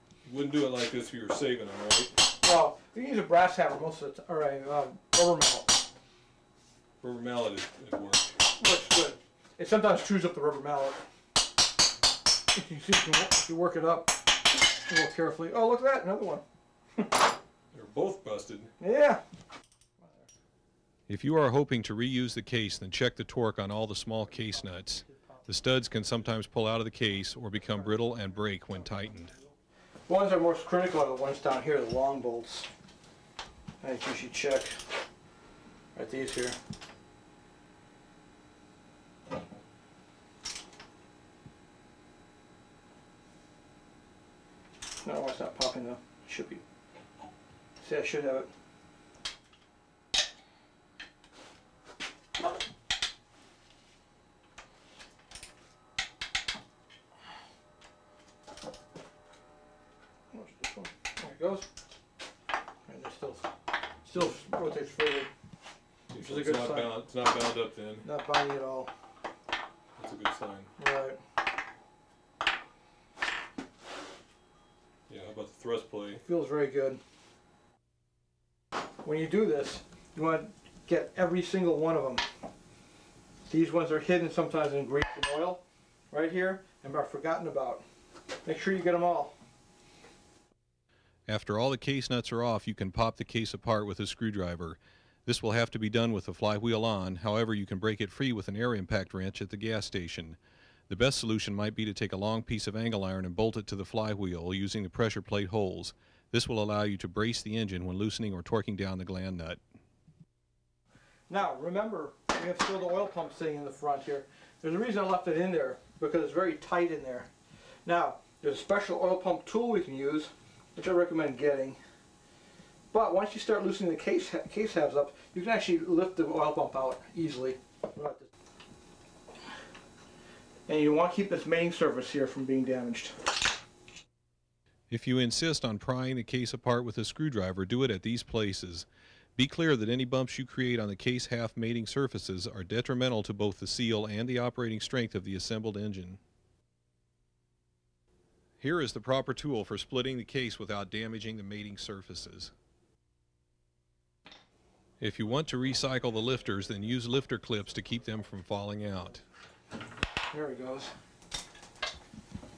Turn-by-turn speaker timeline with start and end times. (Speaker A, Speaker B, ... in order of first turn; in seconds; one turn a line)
Speaker A: 0.2-2.1
Speaker B: 2.4-5.8
Speaker A: 7.0-8.3
Speaker B: 8.6-11.0
Speaker B: 12.5-14.2
Speaker B: 14.9-16.4
Speaker A: 17.7-18.7
Speaker B: 18.8-19.2
Speaker B: 20.0-20.3
Speaker A: 21.1-29.3
Speaker B: 24.2-25.7
Speaker B: 30.1-32.7
Speaker B: 33.8-34.8
Speaker B: 35.9-36.6
Speaker B: 45.0-46.6
Speaker B: 47.8-48.5
Speaker B: 60.3-61.7
Speaker B: 62.9-63.5
Speaker B: 64.0-65.3
Speaker A: 66.1-68.0
Speaker B: 66.1-67.0
Speaker B: 68.0-68.9
Speaker A: 70.0-70.7
Speaker B: 70.8-71.2
Speaker A: 75.1-76.2
Speaker B: 76.1-77.0
Speaker B: 79.0-82.2
Speaker B: 83.5-87.8
Speaker B: 88.4-89.3
Speaker A: 91.3-100.4
Speaker A: 100.9-109.6
Speaker B: 111.3-117.3
Speaker B: 117.8-121.8
Speaker B: 122.9-128.3
Speaker B: 130.7-133.2
Speaker A: 134.9-146.2
Speaker A: 148.6-152.5
Speaker A: 155.0-159.2
Speaker B: 160.3-160.9